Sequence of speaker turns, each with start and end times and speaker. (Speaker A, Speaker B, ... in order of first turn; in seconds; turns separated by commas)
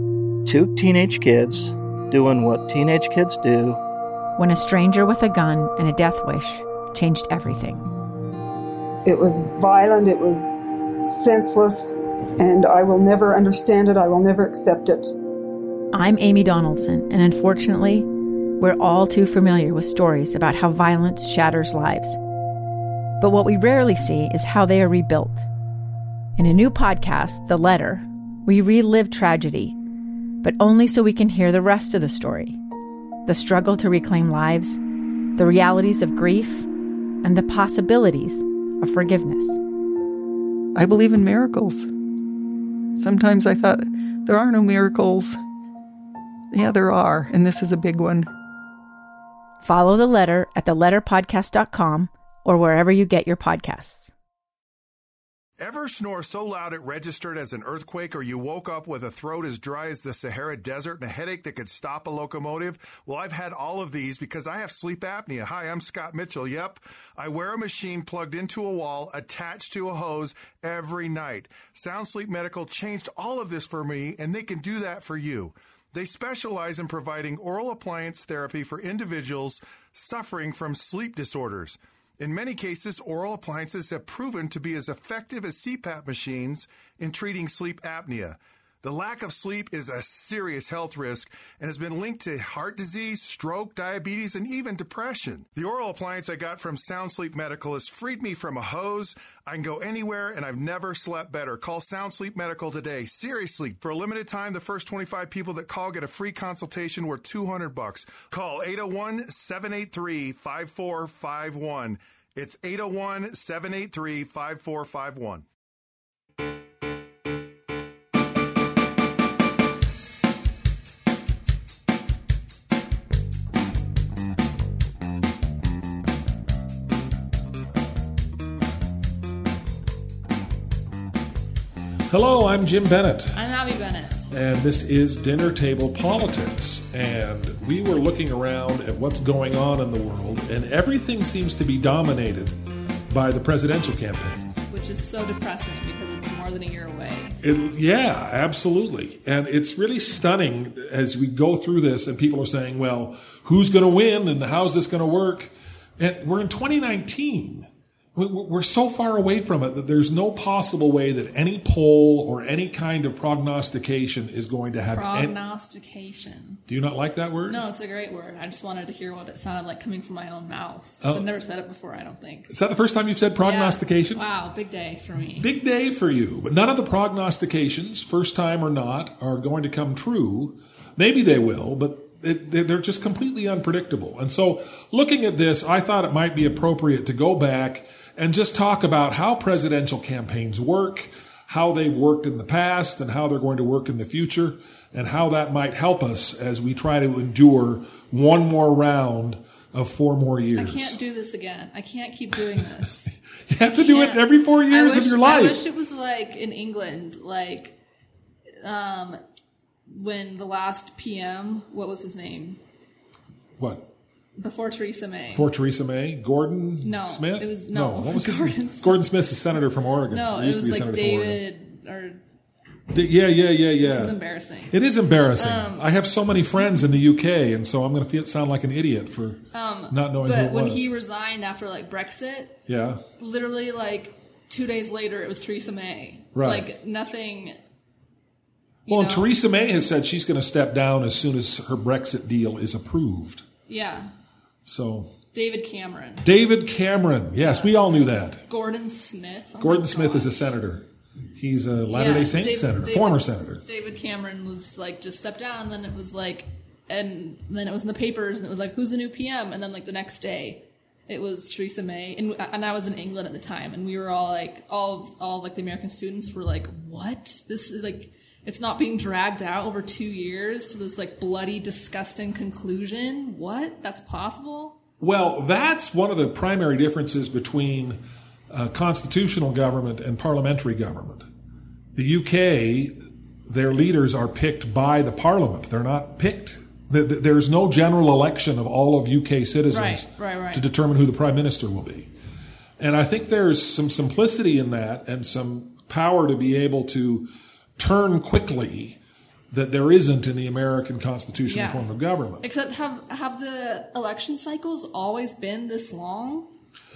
Speaker A: 0.4-3.8, Speaker B: 4.4-7.8, Speaker C: 9.0-10.5, Speaker C: 11.0-15.1, Speaker B: 15.9-18.1, Speaker B: 18.6-22.2, Speaker B: 23.2-25.5, Speaker B: 26.4-29.8, Speaker B: 30.4-32.6, Speaker B: 33.2-34.8, Speaker B: 35.4-36.7, Speaker B: 37.2-39.6, Speaker D: 40.8-41.9, Speaker D: 43.0-45.4, Speaker D: 46.5-48.3, Speaker B: 49.6-54.1, Speaker E: 55.6-115.5, Speaker F: 132.1-133.4, Speaker G: 133.3-134.3, Speaker F: 134.3-142.6, Speaker F: 143.1-144.5, Speaker G: 144.7-147.4, Speaker F: 147.4-165.3, Speaker G: 164.9-166.6, Speaker F: 166.7-167.6, Speaker G: 167.4-172.5, Speaker F: 172.5-174.2, Speaker G: 173.4-175.5, Speaker F: 175.4-201.0, Speaker G: 200.6-203.1, Speaker F: 202.4-202.6, Speaker F: 203.5-205.6, Speaker G: 203.7-207.7, Speaker G: 208.6-209.2, Speaker G: 209.9-212.6, Speaker F: 213.6-213.9, Speaker G: 214.4-215.5, Speaker F: 215.3-221.4, Speaker G: 216.8-219.0, Speaker G: 220.1-222.2, Speaker F: 222.9-224.2, Speaker G: 223.8-224.7, Speaker F: 224.7-230.9, Speaker G: 225.4-225.9, Speaker G: 229.5-232.6, Speaker F: 232.7-233.0, Speaker G: 233.2-237.6, Speaker F: 236.3-236.7, Speaker G: 238.8-239.3, Speaker F: 238.9-243.4, Speaker G: 243.7-244.1, Speaker F: 244.7-245.1, Speaker G: 245.3-246.2, Speaker F: 246.2-248.4, Speaker G: 247.4-250.5, Speaker F: 249.6-250.8, Speaker F: 251.3-253.6, Speaker G: 251.9-274.8, Speaker F: 275.0-281.2, Speaker F: 281.9-292.1, Speaker G: 289.7-290.6, Speaker F: 292.8-299.0, Speaker F: 299.5-302.4, Speaker G: 301.5-301.9, Speaker G: 302.4-306.5